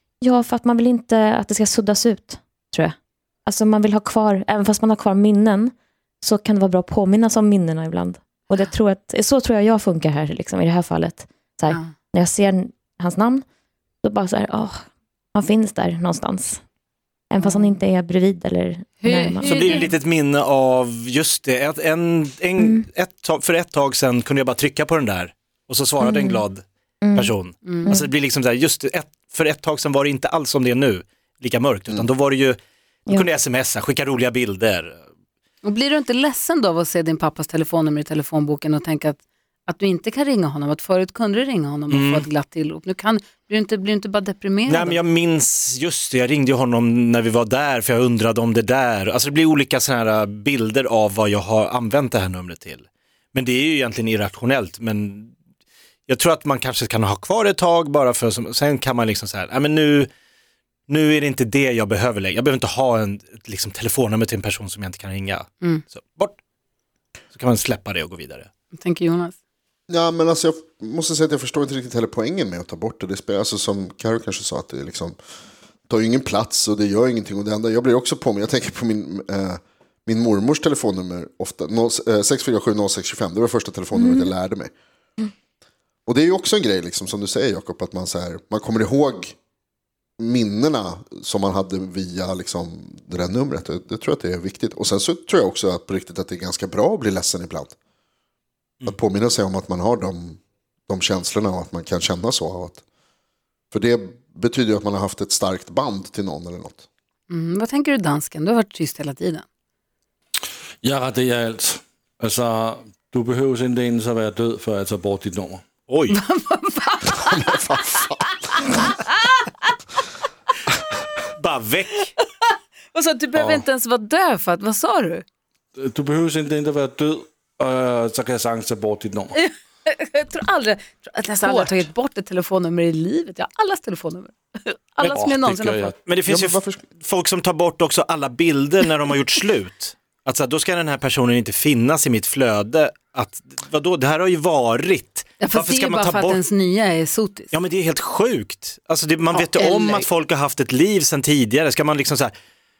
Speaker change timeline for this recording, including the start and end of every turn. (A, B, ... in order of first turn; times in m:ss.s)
0:00.2-0:13.4 A
0:14.0-0:16.6 A
0:17.3-0:19.6 A
0:17.4-0:17.7 B
0:19.0-0:19.9 B
0:19.4-0:35.0 C
0:22.6-0:22.9 A
0:26.0-0:26.4 A
0:27.0-0:27.3 A
0:27.6-0:27.9 B
0:35.6-0:45.0 B
0:41.9-0:42.2 C
0:44.7-0:55.3 C
0:56.1-1:00.1 C
1:00.9-1:06.4 C
1:07.3-1:08.5 C
1:08.7-1:09.3 B
1:09.9-1:15.2 D
1:15.9-1:24.7 D
1:23.9-1:24.3 A
1:26.0-1:29.4 D
1:30.2-1:37.7 D
1:38.8-1:42.8 D
1:43.7-1:46.8 D
1:47.3-1:49.4 B
1:50.8-1:55.6 E
1:55.9-1:56.2 C
1:56.1-1:59.5 B
1:57.5-1:58.1 D
2:01.3-2:02.1 C
2:02.2-2:05.2 B
2:05.7-2:09.3 E
2:09.3-2:16.0 B
2:15.0-2:16.0 E
2:16.0-2:26.4 C
2:16.3-2:16.8 D
2:25.4-2:27.5 B
2:27.5-2:32.3 C
2:29.3-2:30.0 B